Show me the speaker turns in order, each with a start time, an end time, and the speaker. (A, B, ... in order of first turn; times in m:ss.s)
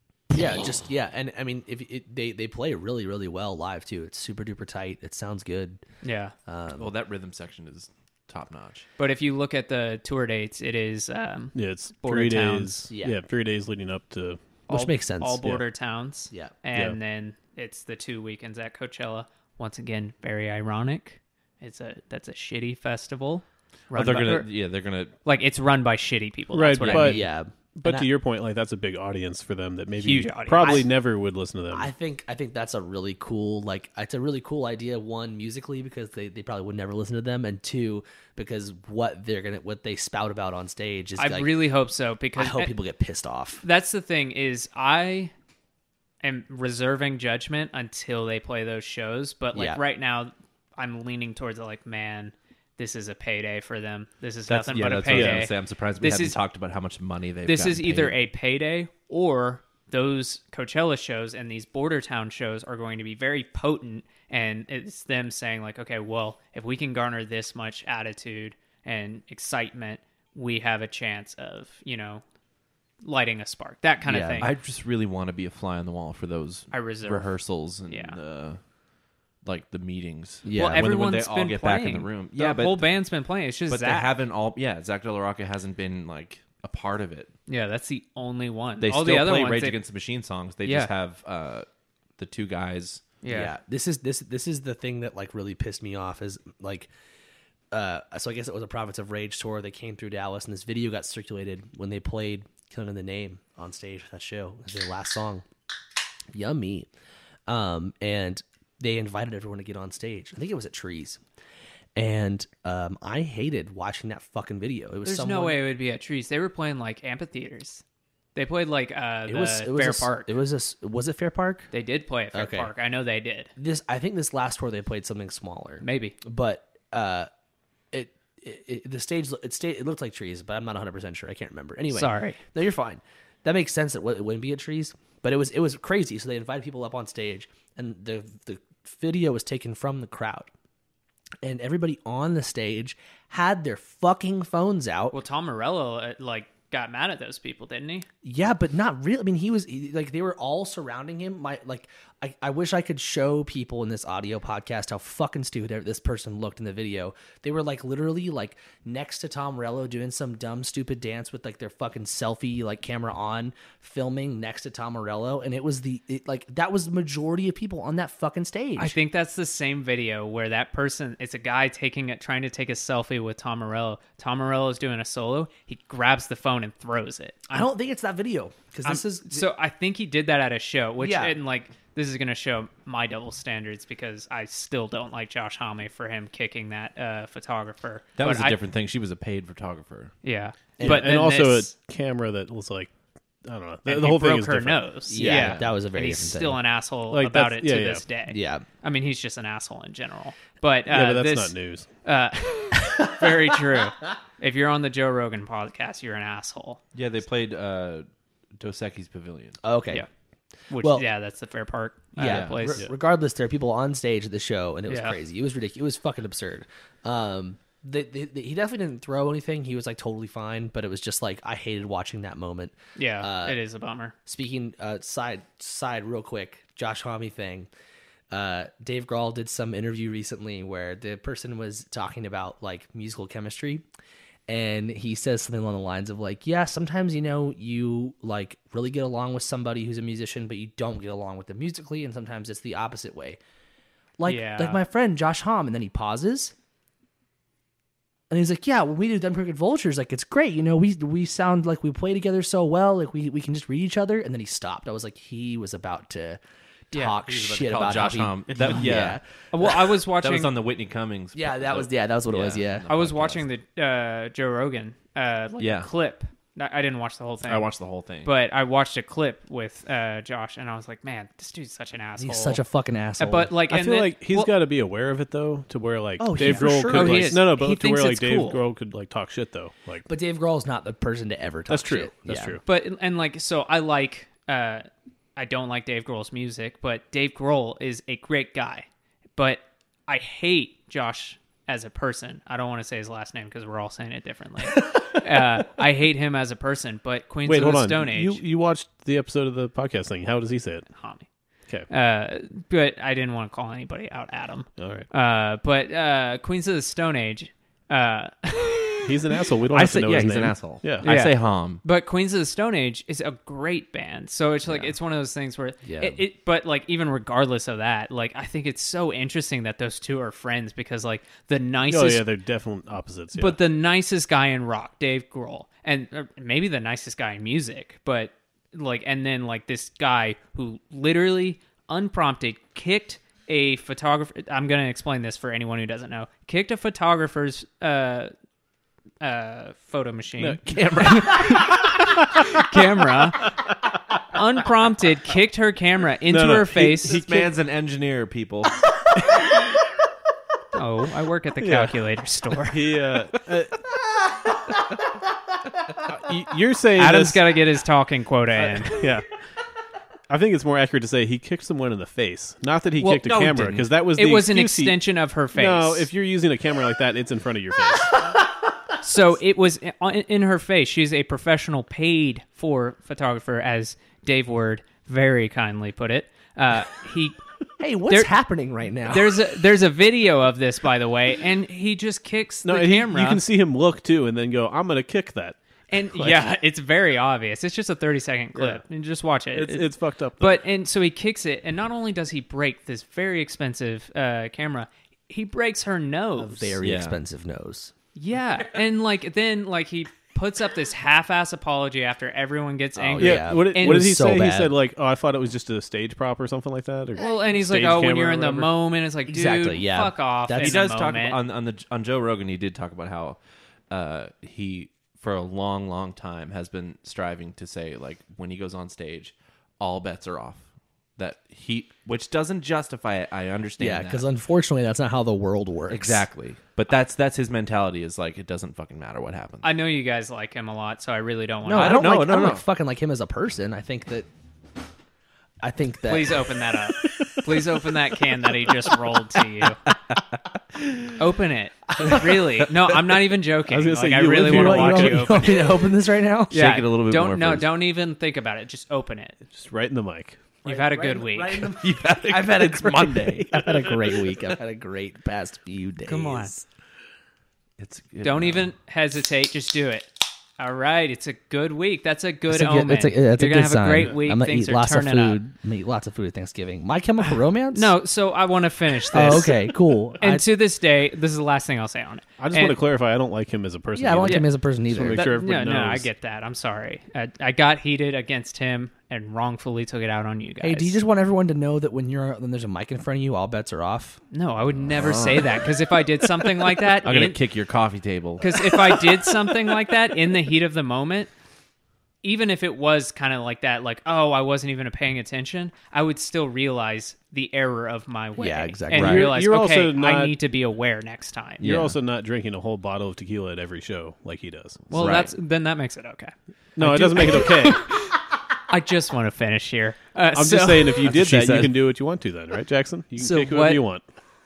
0:00.3-0:05.8 A
0:06.0-0:06.3 B
0:06.4-0:06.9 A
0:06.8-0:08.8 C
0:09.0-0:12.9 B
0:11.5-0:14.5 D
0:12.9-0:13.2 A
0:14.7-0:15.5 A
0:14.7-0:24.5 B
0:23.9-0:25.1 C
0:25.2-0:27.2 B
0:26.5-0:31.9 D
0:26.8-0:28.1 A
0:30.0-0:30.9 B
0:30.6-0:30.9 A
0:31.7-0:41.5 A
0:41.2-0:42.7 B
0:42.4-0:43.6 A
0:43.6-0:45.3 B
0:46.2-0:56.4 B
0:49.5-0:49.8 A
0:54.5-0:58.2 C
0:55.1-0:55.4 D
0:57.4-1:12.2 B
1:13.0-1:14.5 B
1:14.0-1:14.5 A
1:14.4-1:18.6 C
1:16.7-1:18.2 B
1:19.4-1:22.9 C
1:20.4-1:20.8 A
1:20.5-1:24.1 B
1:23.7-1:27.3 C
1:27.5-1:29.8 B
1:28.8-1:31.6 C
1:30.6-1:30.9 B
1:32.2-1:33.0 C
1:33.2-1:33.5 B
1:33.3-1:36.9 A
1:37.7-1:45.4 A
1:46.3-1:46.9 A
1:47.5-1:51.2 A
1:52.0-1:55.6 A
1:55.0-1:57.8 B
1:58.3-2:00.3 B
1:59.3-2:01.7 A
2:01.7-2:03.5 B
2:02.3-2:02.7 A
2:03.6-2:07.3 A
2:05.8-2:06.2 B
2:07.9-2:20.5 A
2:11.9-2:12.4 B
2:21.4-2:25.2 A
2:25.1-2:28.1 B
2:28.2-2:49.0 A
2:48.8-2:57.7 B
2:57.5-2:59.4 A
2:58.8-3:08.6 B
3:01.0-3:01.4 A
3:08.2-3:10.1 C
3:10.2-3:11.7 B
3:10.8-3:11.1 A
3:10.8-3:12.9 D
3:13.4-3:14.8 D
3:13.8-3:26.8 B
3:15.1-3:16.6 A
3:15.2-3:15.7 C
3:17.1-3:18.0 D
3:18.3-3:18.6 A
3:20.9-3:21.9 D
3:26.9-3:28.0 C
3:28.6-3:29.6 C
3:29.6-3:30.0 A
3:30.7-3:32.8 B
3:30.8-3:31.0 A
3:32.2-3:43.6 A
3:32.2-3:32.7 C
3:34.9-3:35.2 B
3:43.0-3:44.1 B
3:44.2-3:47.7 A
3:48.3-3:53.8 A
3:54.5-4:03.4 A
4:04.2-4:06.5 A
4:04.2-4:04.8 B
4:08.3-4:16.4 A
4:16.9-4:19.2 A
4:17.2-4:23.4 C
4:19.5-4:20.5 B
4:21.3-4:22.9 A
4:22.9-4:27.7 B
4:25.6-4:25.9 C
4:27.4-4:28.3 C
4:28.2-4:32.6 B
4:32.2-4:33.5 A
4:33.2-4:34.5 B
4:33.7-4:40.0 D
4:36.2-4:37.4 A
4:36.4-4:38.6 B
4:40.1-4:42.6 A
4:41.7-4:42.6 D
4:42.6-4:48.8 B
4:49.4-4:58.4 B
4:57.4-5:00.9 D
5:00.9-5:01.3 B
5:01.9-5:09.4 B
5:04.8-5:05.1 D
5:09.0-5:11.0 D
5:09.7-5:11.8 C
5:11.0-5:22.3 B
5:15.8-5:16.2 A
5:21.9-5:23.6 D
5:23.3-5:38.3 B
5:39.2-5:43.6 B
5:40.4-5:41.4 D
5:40.6-5:41.8 C
5:44.3-5:47.2 B
5:46.3-5:47.5 D
5:47.0-5:48.9 C
5:50.7-5:52.8 B
5:51.6-5:52.0 D
5:52.6-5:53.9 D
5:56.0-5:57.4 D
5:57.0-5:59.1 B
5:58.6-5:59.3 D
6:00.3-6:05.0 D
6:03.0-6:06.1 B
6:05.5-6:08.3 D
6:09.0-6:17.4 B
6:17.8-6:19.5 A
6:19.1-6:23.4 B
6:22.6-6:25.6 D
6:25.9-6:36.8 B
6:26.1-6:26.4 D
6:28.5-6:28.8 D
6:29.5-6:30.6 D
6:36.4-6:37.9 A
6:36.8-6:37.2 C
6:38.1-6:44.1 B
6:43.0-6:44.7 A
6:43.2-6:48.7 D
6:47.2-6:51.4 B
6:49.3-6:50.8 A
6:50.6-6:53.4 C
6:53.9-7:00.6 C
7:01.2-7:04.2 C
7:03.8-7:06.2 A
7:05.9-7:09.7 C
7:09.6-7:12.0 B
7:11.6-7:14.3 A
7:11.7-7:12.6 C
7:15.6-7:17.7 A
7:16.0-7:19.8 B
7:20.8-7:21.1 C
7:21.2-7:25.7 B
7:23.7-7:25.4 D
7:24.4-7:26.6 A
7:26.5-7:27.7 C
7:26.5-7:29.4 B
7:29.5-7:30.4 D
7:30.6-7:31.7 B
7:30.6-7:36.6 A
7:31.8-7:34.3 C
7:36.0-7:36.6 B
7:37.8-7:38.7 C
7:38.2-7:45.4 B
7:42.5-7:47.9 A
7:47.7-7:52.8 B
7:49.1-7:50.4 A
7:52.4-7:56.1 D
7:53.9-7:55.3 A
7:55.1-8:01.0 B
8:00.6-8:04.2 A
8:04.3-8:07.4 B
8:04.9-8:05.6 C
8:07.0-8:08.7 C
8:08.4-8:11.3 B
8:12.2-8:21.7 B
8:18.4-8:19.3 A
8:18.9-8:20.4 D
8:21.6-8:22.0 C
8:21.6-8:24.8 D
8:24.9-8:31.1 B
8:24.9-8:25.3 C
8:26.8-8:27.9 D
8:30.3-8:34.0 D
8:31.0-8:31.8 C
8:33.2-8:33.8 B